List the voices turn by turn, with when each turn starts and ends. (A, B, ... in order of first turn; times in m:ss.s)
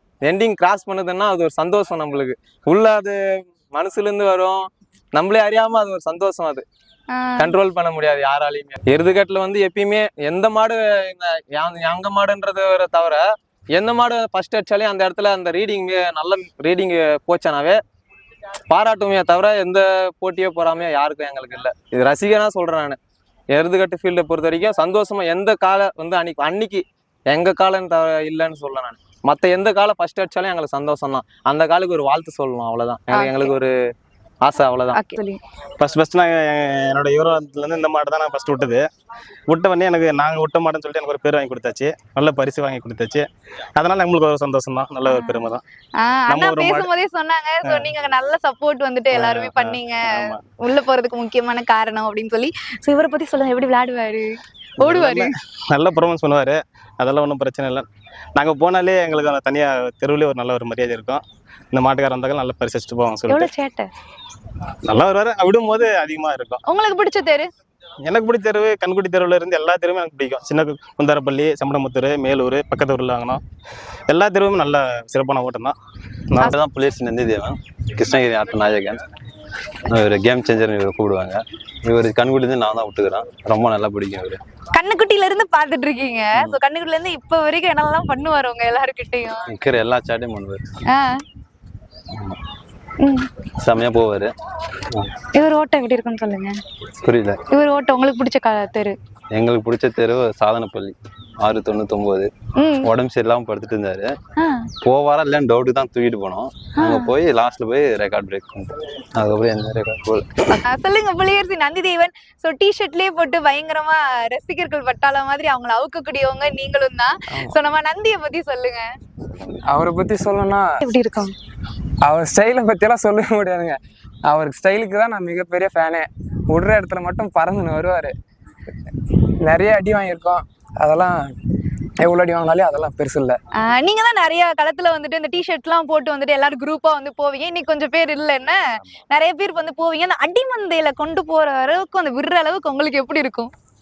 0:00.2-0:06.6 A
0:07.1-0:07.5 B
0:07.4-0:17.8 A
0:18.7-0:23.0 A
0:23.5-0:33.7 A
0:33.1-0:33.5 B
0:34.4-0:35.0 A
0:34.9-0:35.4 B
0:35.8-0:38.8 C
0:39.5-0:43.2 C
0:43.8-0:45.6 C
0:45.1-0:55.3 B
0:46.3-0:46.9 C
0:49.1-0:50.4 C
0:54.8-0:57.8 C
0:58.4-1:01.2 C
1:01.7-1:03.5 C
1:03.3-1:03.9 B
1:04.9-1:06.6 C
1:06.7-1:07.5 B
1:08.0-1:13.4 C
1:14.1-1:15.7 C
1:16.4-1:19.0 D
1:19.9-1:24.4 D
1:24.7-1:29.5 B
1:29.5-1:30.7 D
1:30.9-1:31.2 B
1:33.0-1:33.3 B
1:33.6-1:34.3 D
1:35.3-1:36.6 B
1:37.0-1:37.4 D
1:37.5-1:39.0 B
1:39.3-1:42.3 D
1:42.6-1:42.9 B
1:42.8-1:44.2 D
1:44.4-1:44.7 B
1:44.8-1:50.4 D
1:46.8-1:47.1 B
1:50.5-1:58.9 B
1:59.6-2:00.7 E
2:00.8-2:01.3 B
2:02.0-2:08.1 E
2:09.4-2:11.2 E
2:12.0-2:13.4 E
2:13.6-2:23.5 B